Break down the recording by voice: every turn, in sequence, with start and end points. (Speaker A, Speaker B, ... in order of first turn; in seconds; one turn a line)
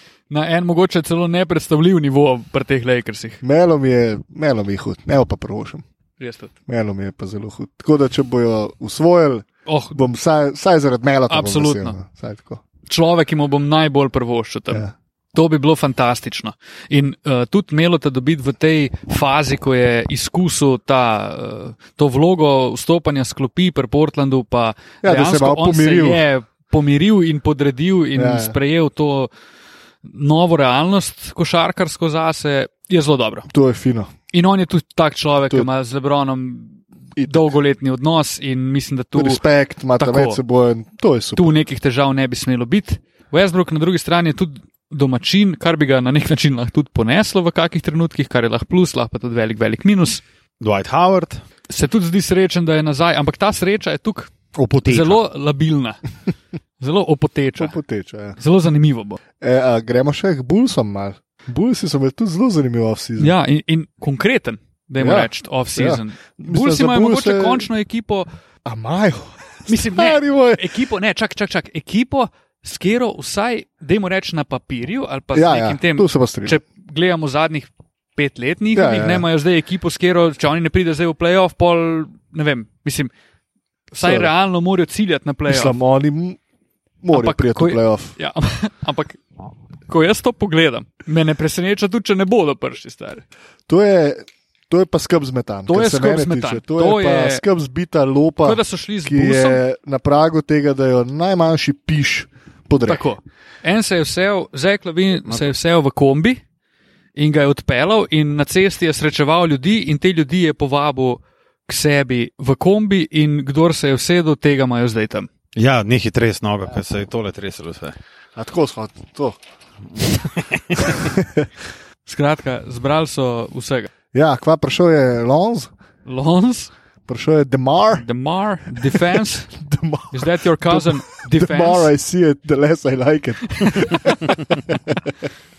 Speaker A: 0.3-3.4
Speaker B: 3.4-5.8
Speaker A: 6.2-6.5
Speaker B: 6.7-12.6
Speaker A: 9.7-10.0
Speaker A: 11.3-12.0
Speaker A: 12.9-29.3
Speaker B: 25.0-26.2
Speaker B: 28.1-28.6
Speaker A: 30.0-33.5
Speaker B: 33.5-34.1
Speaker A: 34.3-39.4
Speaker B: 37.2-37.5
Speaker B: 39.1-41.5
Speaker A: 40.0-40.4
Speaker A: 41.4-50.2
Speaker C: 50.6-51.4
Speaker A: 51.7-54.3
Speaker C: 54.5-55.2
Speaker A: 54.9-56.0
Speaker A: 56.8-57.7
Speaker B: 57.6-58.4
Speaker A: 58.4-59.2
Speaker B: 59.4-63.4
Speaker A: 63.2-68.3
Speaker B: 65.0-67.7
Speaker B: 68.7-70.8
Speaker A: 69.7-83.1
Speaker B: 75.3-76.6
Speaker B: 78.7-79.3
Speaker A: 83.9-85.8
Speaker B: 84.0-84.3
Speaker B: 85.5-86.4
Speaker B: 87.0-88.1
Speaker A: 87.1-89.2
Speaker A: 89.9-93.2
Speaker B: 93.7-103.0
Speaker A: 95.7-97.4
Speaker A: 98.4-99.6
Speaker A: 102.9-106.4
Speaker A: 107.2-115.3
Speaker C: 115.6-118.0
Speaker B: 118.4-119.4
Speaker C: 120.5-120.9
Speaker B: 120.8-121.5
Speaker A: 122.1-123.9
Speaker B: 124.1-125.7
Speaker A: 126.1-126.7
Speaker B: 127.1-128.1
Speaker A: 128.0-129.5
Speaker B: 128.8-135.3
Speaker A: 130.1-131.9